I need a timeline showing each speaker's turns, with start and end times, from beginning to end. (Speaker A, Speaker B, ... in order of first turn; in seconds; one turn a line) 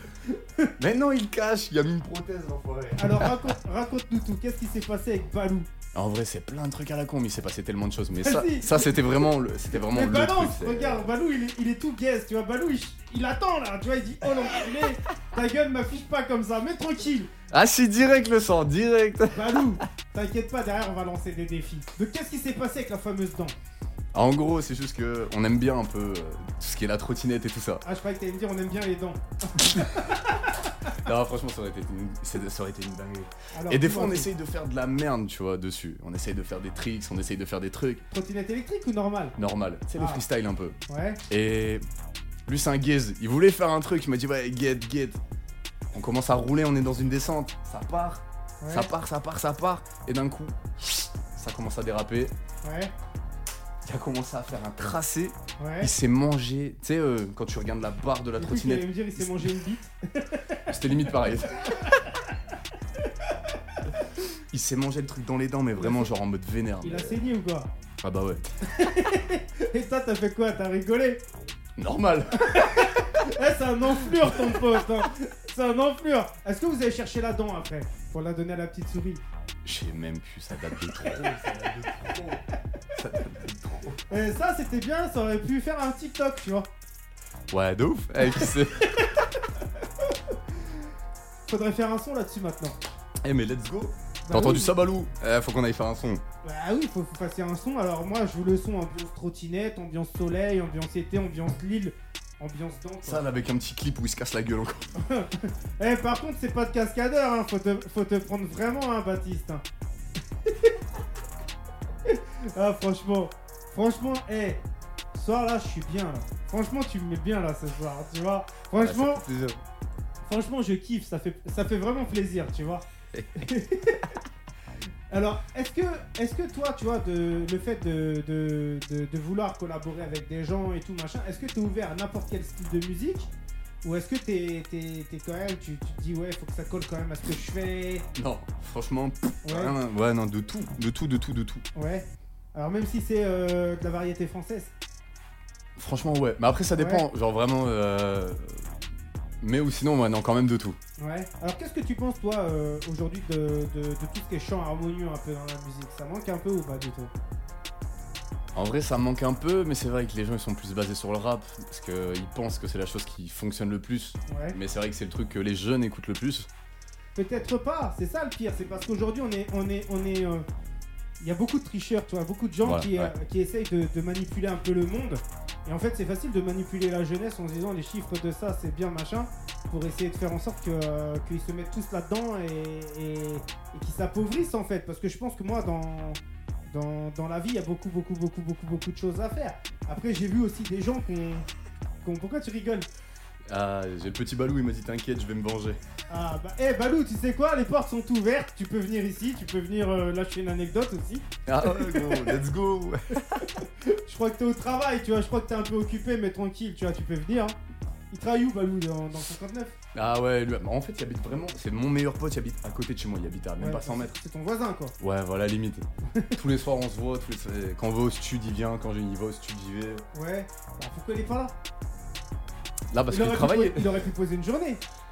Speaker A: 0.3-0.7
Speaker B: 0.8-3.5
Speaker A: 3.0-5.7
Speaker B: 5.9-11.1
Speaker A: 8.2-9.2
Speaker A: 9.8-17.3
Speaker B: 17.5-19.8
Speaker A: 19.3-23.5
Speaker B: 24.1-27.8
Speaker A: 27.8-30.6
Speaker B: 31.0-38.0
Speaker A: 33.5-34.3
Speaker A: 38.1-39.4
Speaker B: 39.4-41.8
Speaker A: 40.0-40.2
Speaker A: 40.9-41.2
Speaker B: 42.5-45.2
Speaker B: 45.9-52.3
Speaker A: 48.6-48.9
Speaker A: 52.6-52.9
Speaker B: 53.8-59.5
Speaker A: 55.6-55.9
Speaker A: 58.4-60.7
Speaker B: 60.7-61.8
Speaker B: 64.5-67.2
Speaker A: 65.8-66.1
Speaker A: 66.8-67.7
Speaker B: 68.0-68.5
Speaker A: 68.7-71.2
Speaker B: 71.8-72.9
Speaker A: 72.4-79.2
Speaker B: 74.1-74.6
Speaker B: 79.6-84.0
Speaker A: 84.1-86.7
Speaker B: 87.5-89.2
Speaker A: 91.5-92.8
Speaker B: 93.2-96.2
Speaker A: 94.2-94.7
Speaker A: 96.4-103.2
Speaker B: 103.0-104.9
Speaker A: 105.0-109.6
Speaker A: 110.5-110.8
Speaker A: 112.0-114.6
Speaker A: 115.1-119.2
Speaker B: 118.8-119.6
Speaker A: 120.2-122.8
Speaker A: 123.3-124.2
Speaker A: 125.1-133.3
Speaker A: 133.8-138.1
Speaker B: 138.1-141.6
Speaker A: 139.4-139.8
Speaker A: 141.7-144.7
Speaker B: 145.8-148.7
Speaker A: 146.7-147.0
Speaker B: 149.4-150.8
Speaker A: 151.0-157.1
Speaker B: 158.5-166.5
Speaker A: 164.3-164.6
Speaker A: 167.2-170.4
Speaker A: 171.2-191.4
Speaker B: 172.6-173.1
Speaker A: 192.0-192.9
Speaker B: 193.5-195.8
Speaker A: 196.1-202.3
Speaker B: 201.4-203.4
Speaker A: 203.6-207.6
Speaker A: 208.1-209.8
Speaker B: 209.9-214.2
Speaker A: 213.6-214.9
Speaker B: 215.0-220.0
Speaker A: 216.1-216.4
Speaker A: 220.1-221.6
Speaker B: 222.9-224.0
Speaker A: 223.1-224.8